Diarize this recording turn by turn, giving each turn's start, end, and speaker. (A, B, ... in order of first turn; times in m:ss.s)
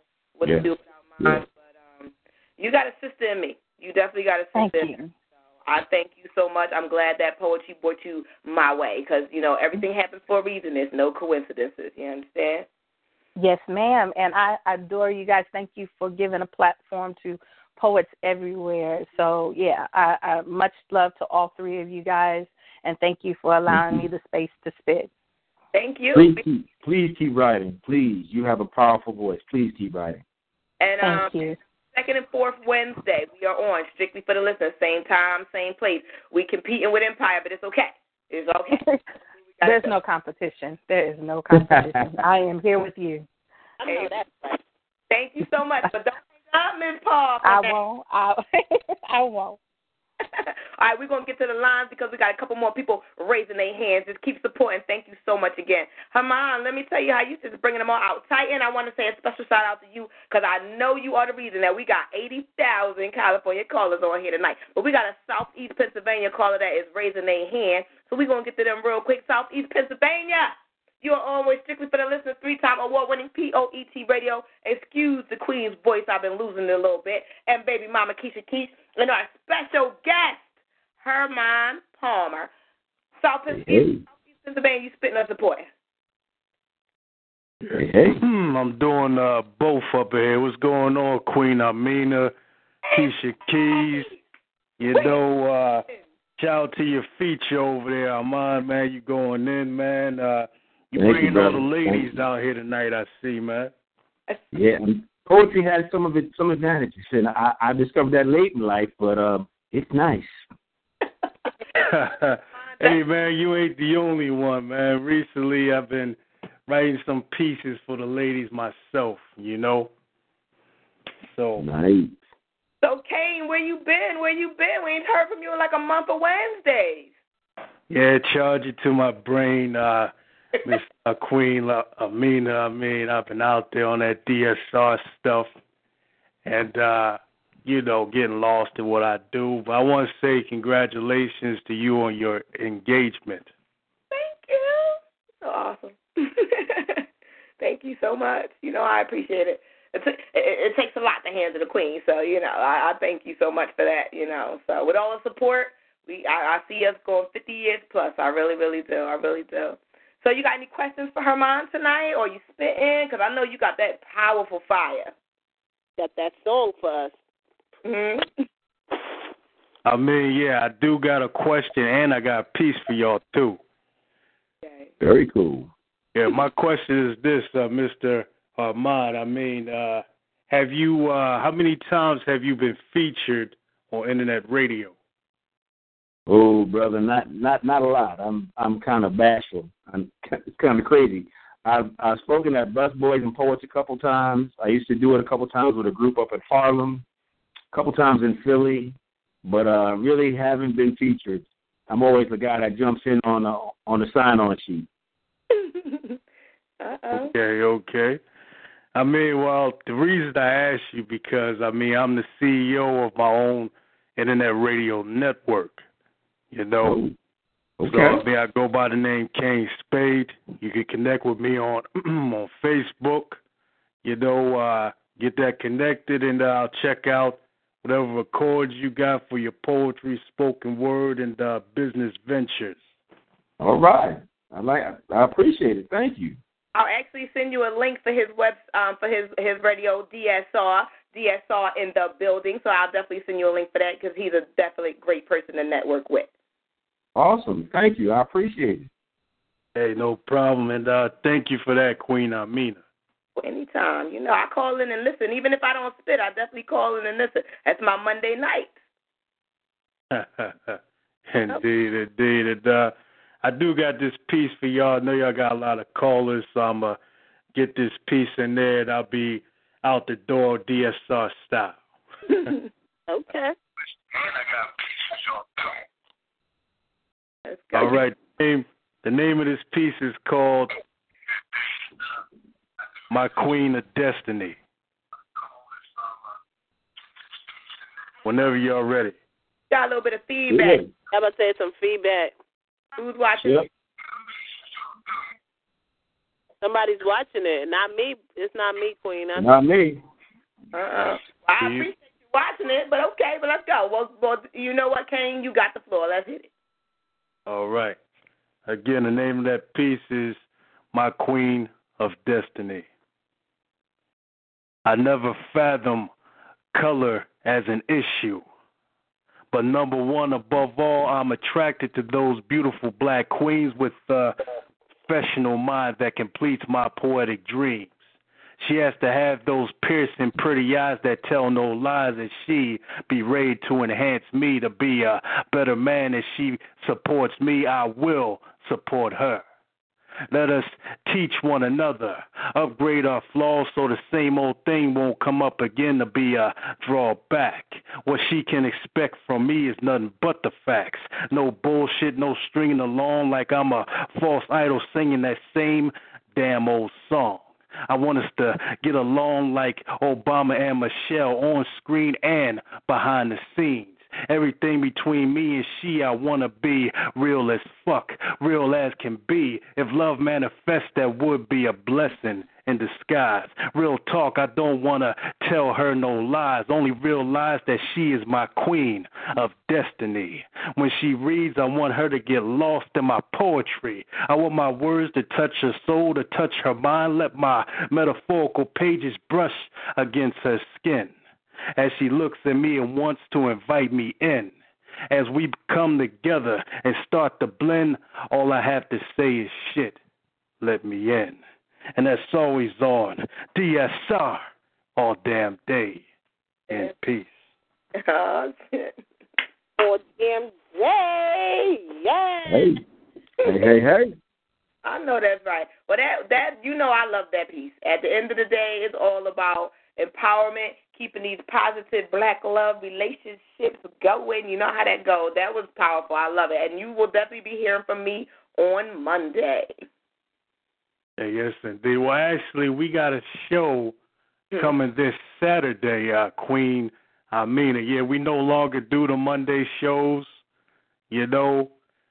0:00.4-0:01.4 A
0:00.4-0:00.7 B
0:02.0-0:04.9 A
0:04.6-0:05.1 C
0:05.6-0:12.7 A
0:13.4-0:25.1 C
0:23.7-0:24.1 B
0:25.7-0:26.4 A
0:26.1-0:30.2 B
0:30.8-0:31.4 A
0:31.0-0:31.6 C
0:31.9-0:38.8 A
0:39.6-0:40.0 A
0:39.6-0:43.3 C
0:41.5-0:42.2 B
0:43.8-0:44.6 D
0:43.9-0:44.1 A
0:45.1-0:47.8 A
0:47.4-0:49.6 C
0:50.4-1:20.4 A
1:21.0-1:22.5 A
1:23.2-1:25.7 A
1:23.5-1:24.0 B
1:27.7-1:28.2 B
1:28.2-1:32.3 E
1:32.9-1:34.0 A
1:32.9-1:34.1 E
1:34.8-1:35.9 E
1:36.4-1:43.7 E
1:41.0-1:42.2 B
1:44.5-1:50.4 B
1:51.8-1:59.9 E
2:01.3-2:01.6 E
2:01.6-2:02.2 B
2:02.8-2:07.1 A
2:07.9-2:10.1 E
2:10.6-2:15.5 E
2:16.4-2:23.5 E
2:24.1-2:27.0 A
2:27.6-2:45.1 A
2:46.0-2:47.2 D
2:47.8-2:48.3 A
2:49.9-2:53.6 E
2:55.0-2:55.7 B
2:56.2-3:04.9 E
3:06.3-3:17.0 B
3:17.7-3:24.9 B
3:25.5-3:26.2 A
3:26.8-3:27.3 A
3:27.1-3:28.2 E
3:29.0-3:35.8 E
3:36.5-3:37.0 E
3:36.8-3:37.2 B
3:37.8-3:38.2 B
3:37.8-3:43.4 E
3:44.0-3:52.8 E
3:53.6-3:56.4 B
3:56.8-4:06.3 A
4:07.2-4:08.9 B
4:09.8-4:12.8 E
4:13.4-4:18.7 A
4:20.1-4:27.0 E
4:27.5-4:31.8 E
4:33.1-4:33.6 D
4:37.5-4:38.0 A
4:37.7-4:40.7 E
4:43.1-4:44.6 E
4:48.2-4:49.1 E
4:49.7-4:50.8 A
4:50.5-4:50.9 B
4:51.1-4:52.3 D
4:53.0-4:53.7 A
4:53.4-4:53.7 B
4:56.6-4:59.5 D
4:59.4-5:00.0 B
5:00.7-5:06.5 A
5:01.6-5:01.9 E
5:07.5-5:08.0 E
5:08.7-5:10.4 E
5:10.9-5:12.9 E
5:14.9-5:16.1 E
5:16.7-5:18.5 E
5:19.5-5:24.4 E
5:25.1-5:28.0 E
5:28.6-5:39.4 E
5:40.3-6:31.2 E
6:31.8-6:34.5 E
6:35.1-6:40.0 E
6:40.6-6:41.4 E
6:42.0-6:46.0 E
6:46.7-6:47.4 E
6:48.0-6:48.9 A
6:49.8-6:52.7 D
6:52.5-6:52.8 B
6:53.4-6:54.2 B
6:54.8-7:09.7 A
7:11.2-7:14.0 E
7:14.6-7:20.3 E
7:21.1-7:21.7 E